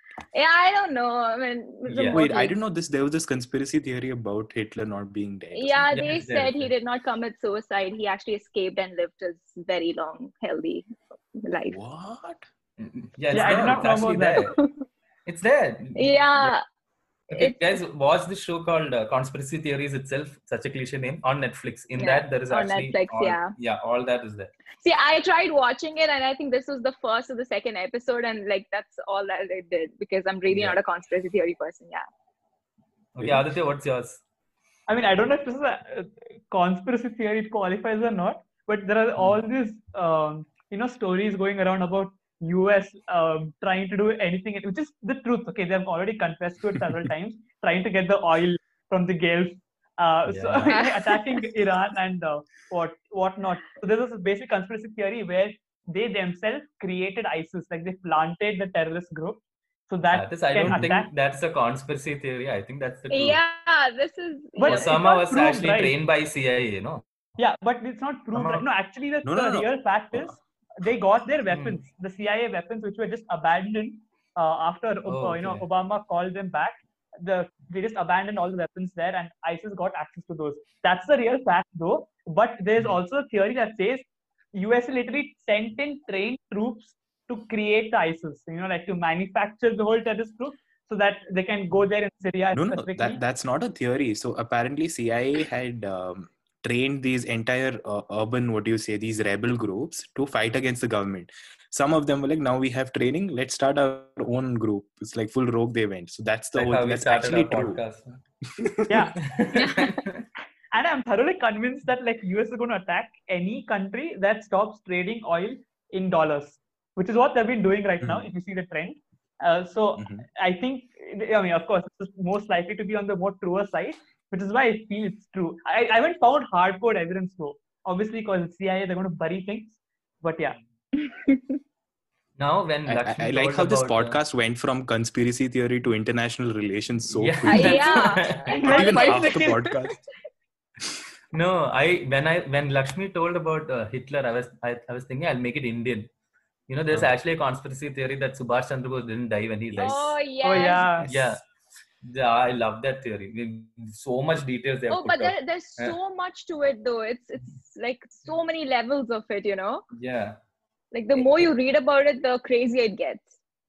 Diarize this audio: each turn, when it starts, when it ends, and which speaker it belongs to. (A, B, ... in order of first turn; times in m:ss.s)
0:00.3-0:02.5 A
0:01.9-0:02.2 B
0:02.1-0:06.0 C
0:05.5-0:11.8 A
0:05.9-0:06.7 B
0:11.7-0:12.4 C
0:12.8-0:14.6 B
0:13.3-0:14.5 D
0:14.4-0:14.8 A
0:15.3-0:16.6 B
0:16.0-0:16.6 A
0:17.3-0:24.5 B
0:17.3-0:17.6 A
0:22.0-0:23.5 A
0:24.8-0:32.1 A
0:30.5-0:30.8 B
0:33.2-0:34.2 B
0:34.9-1:01.1 D
0:50.3-0:50.8 B
0:50.7-0:51.2 A
1:00.1-1:03.4 B
1:03.1-1:05.0 A
1:04.6-1:05.9 D
1:04.7-1:07.0 B
1:07.4-1:33.2 D
1:08.3-1:08.7 B
1:09.2-1:10.4 C
1:11.5-1:11.8 B
1:15.1-1:15.7 B
1:32.5-1:47.8 C
1:46.6-1:48.2 B
1:48.6-1:49.1 C
1:48.9-1:49.2 D
1:49.2-1:50.2 B
1:49.6-1:49.9 A
1:50.7-2:10.6 D
1:58.0-1:58.3 C
2:00.0-2:00.2 C
2:11.0-2:11.4 A
2:12.4-2:14.2 B
2:12.9-2:18.0 C
2:17.1-2:18.8 B
2:17.5-2:19.8 A
2:18.5-2:19.6 D
2:18.6-2:20.0 C
2:21.3-2:26.1 B
2:26.7-2:30.2 B
2:29.7-2:30.0 C
2:29.8-2:31.0 A
2:30.4-2:31.1 D
2:31.0-2:31.3 C
2:31.0-2:31.4 B
2:32.0-2:36.0 B
2:34.9-2:39.8 A
2:39.9-2:40.4 B
2:40.9-2:43.3 A